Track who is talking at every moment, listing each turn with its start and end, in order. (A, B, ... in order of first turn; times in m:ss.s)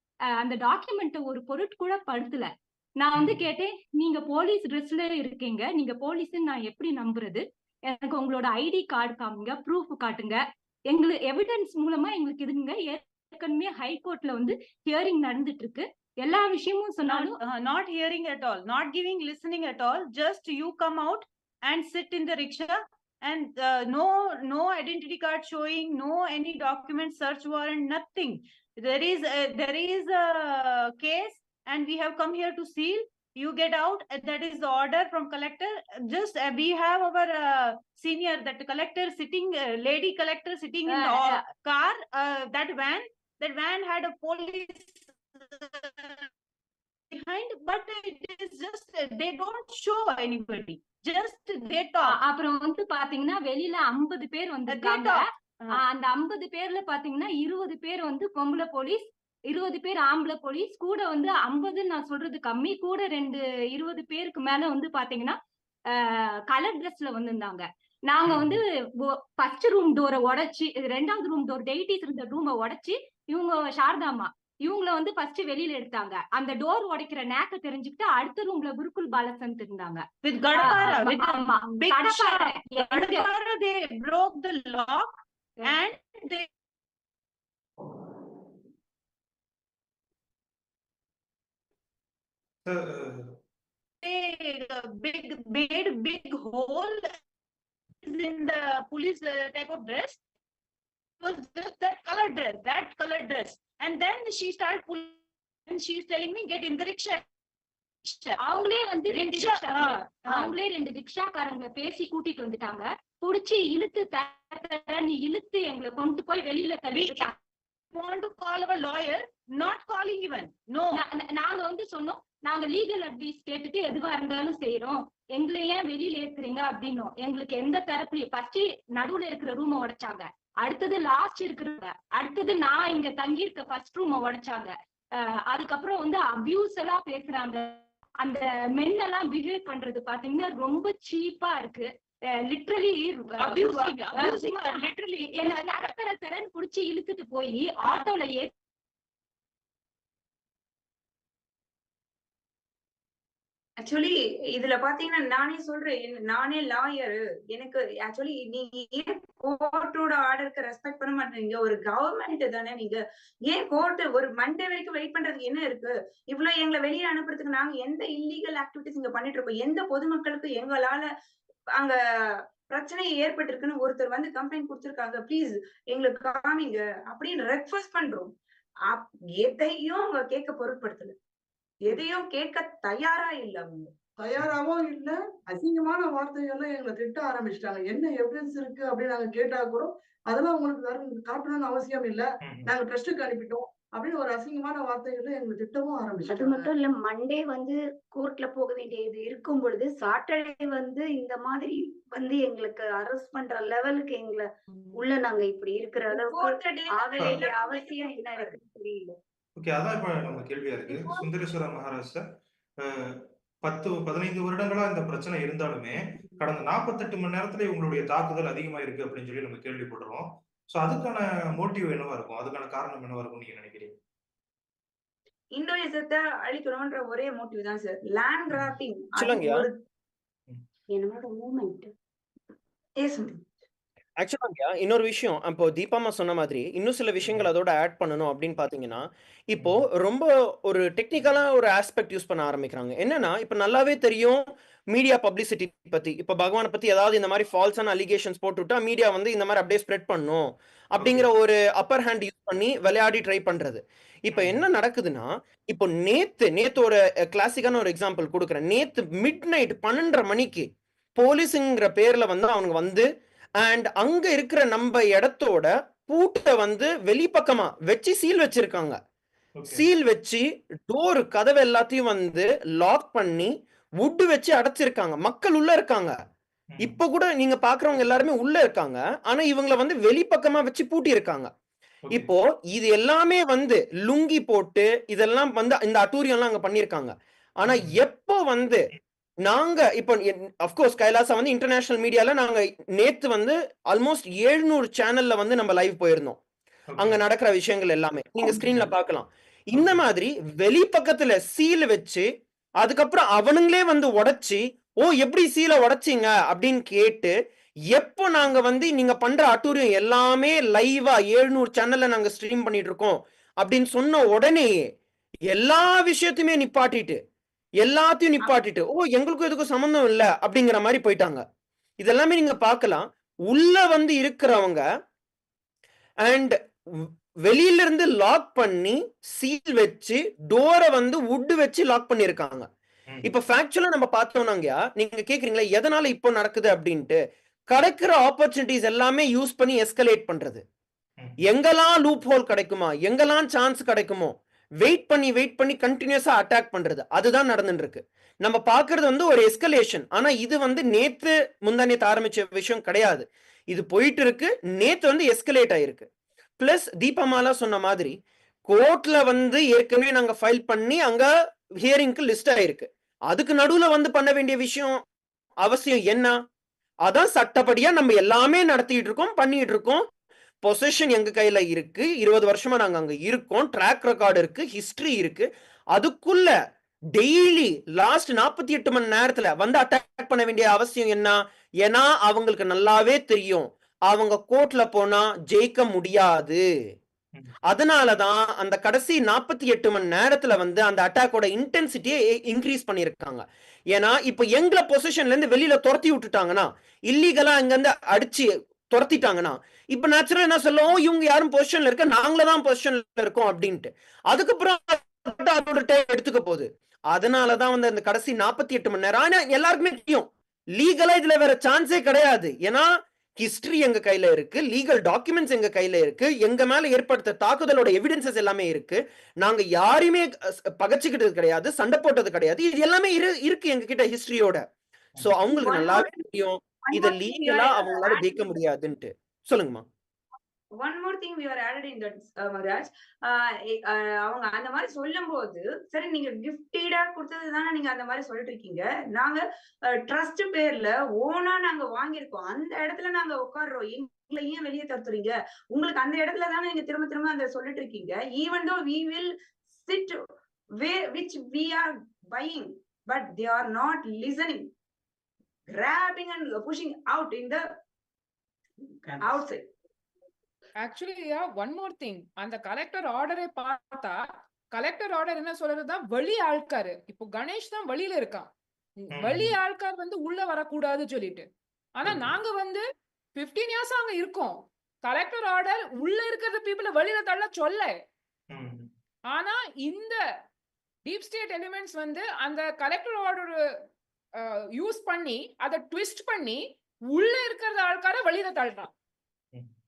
0:00.4-0:17.4 A
0:03.2-0:03.5 B
0:17.0-0:46.3 C
0:40.8-0:41.4 A
0:47.1-0:52.2 C
0:52.0-1:05.4 A
0:54.7-0:55.8 C
1:05.9-1:23.3 A
1:08.3-1:08.6 B
1:20.2-1:26.5 C
1:32.6-1:33.2 B
1:34.0-1:37.1 C
1:38.0-1:40.2 C
1:41.2-1:47.2 C
1:48.0-1:48.4 C
1:48.4-1:57.4 A
1:49.1-1:50.5 C
1:56.9-1:57.3 C
1:57.9-2:01.0 C
2:00.9-2:28.5 A
2:23.4-2:24.8 C
2:33.8-2:51.1 D
2:52.7-2:58.3 D
2:58.9-3:01.1 D
3:01.8-3:03.9 D
3:04.2-3:16.7 E
3:12.4-3:12.7 B
3:16.2-3:29.2 F
3:26.1-3:28.6 D
3:29.6-3:32.2 B
3:30.9-3:31.2 F
3:33.6-3:43.9 B
3:45.6-3:49.7 D
3:49.2-3:49.6 G
3:50.9-3:51.9 F
3:53.0-3:53.3 D
3:54.2-4:23.1 G
3:57.2-3:57.5 B
3:59.6-3:59.9 B
4:11.0-4:11.3 B
4:14.3-4:14.7 B
4:23.6-4:29.0 G
4:29.6-4:29.8 B
4:29.6-4:33.5 G
4:34.0-4:36.1 G
4:36.7-4:37.0 B
4:36.8-4:41.5 G
4:42.1-4:48.8 G
4:47.6-4:48.0 B
4:49.4-4:56.4 G
4:56.9-4:57.2 B
4:57.0-5:02.3 G
4:58.5-4:58.9 B
4:59.7-5:00.0 B
5:02.8-5:07.3 G
5:07.9-5:14.8 G
5:15.5-5:17.2 G
5:17.8-5:21.4 G
5:22.0-5:24.8 G
5:26.2-5:32.7 G
5:33.1-5:33.4 B
5:33.2-5:37.2 G
5:37.7-5:40.6 G
5:41.4-5:56.1 G
5:56.6-6:01.3 G
6:01.8-6:05.0 G
6:05.6-6:06.4 G
6:07.0-6:10.0 G
6:10.6-6:16.5 G
6:17.1-6:26.6 G
6:27.7-7:04.6 G
7:05.2-7:09.8 G
7:05.5-7:06.1 D
7:06.9-7:08.5 D
7:10.8-7:19.4 D
7:20.0-7:29.3 D
7:29.8-7:30.2 D
7:30.8-7:34.6 D
7:35.7-7:37.6 D
7:39.2-7:39.6 D
7:40.8-7:44.2 H
7:44.7-7:48.5 H
7:49.0-7:51.5 H
7:49.1-7:49.6 B
7:52.0-7:52.8 H
7:52.0-7:52.4 B
7:53.3-7:57.9 H
7:58.5-7:58.9 B
7:59.3-8:00.2 H
8:01.0-8:03.5 H
8:04.4-8:08.9 H